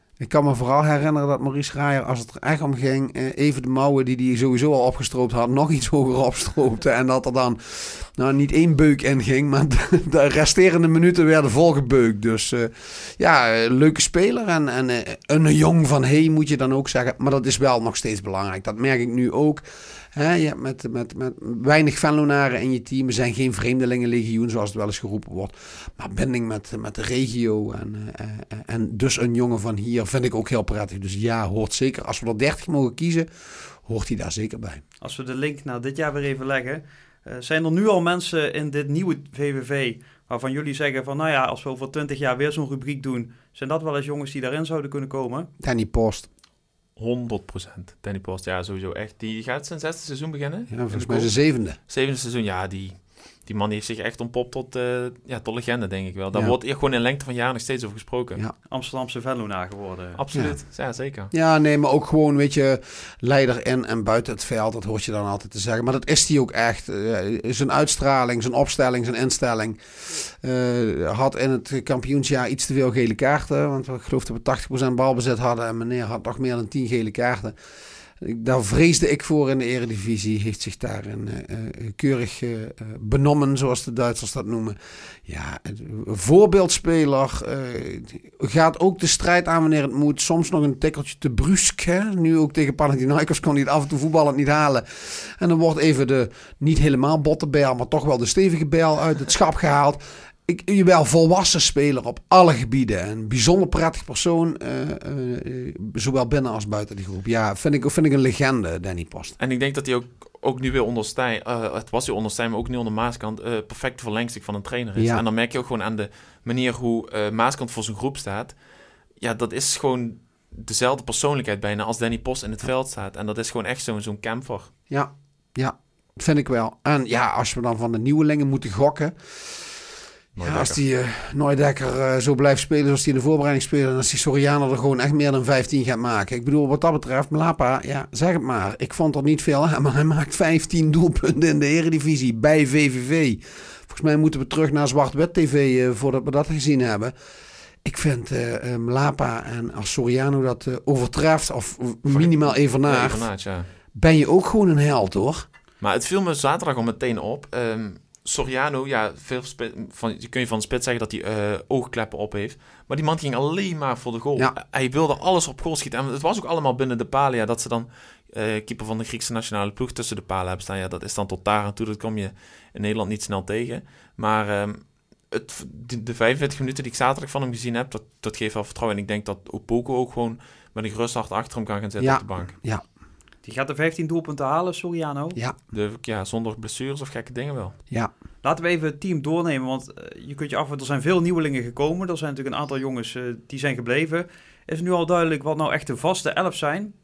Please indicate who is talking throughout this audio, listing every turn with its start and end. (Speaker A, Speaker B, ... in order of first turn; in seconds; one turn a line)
Speaker A: 0.2-19.6
Speaker A: 20.1-34.8
Speaker B: 35.0-45.5
Speaker A: 45.6-46.3
Speaker C: 47.0-51.3
Speaker A: 50.7-51.8
Speaker C: 51.9-58.4
Speaker B: 58.7-60.2
Speaker C: 60.2-61.3
Speaker A: 61.3-77.6
Speaker A: 78.2-109.4
Speaker C: 109.4-118.6
Speaker A: 115.0-115.2
Speaker C: 119.2-124.7
Speaker A: 124.9-129.7
Speaker C: 130.3-130.8
Speaker A: 130.4-147.1
Speaker A: 147.8-153.3
Speaker C: 152.1-153.7
Speaker A: 153.9-155.5
Speaker C: 155.8-182.5
Speaker A: 182.0-182.8
Speaker B: 183.4-185.4
Speaker C: 185.7-187.8
Speaker B: 188.4-196.9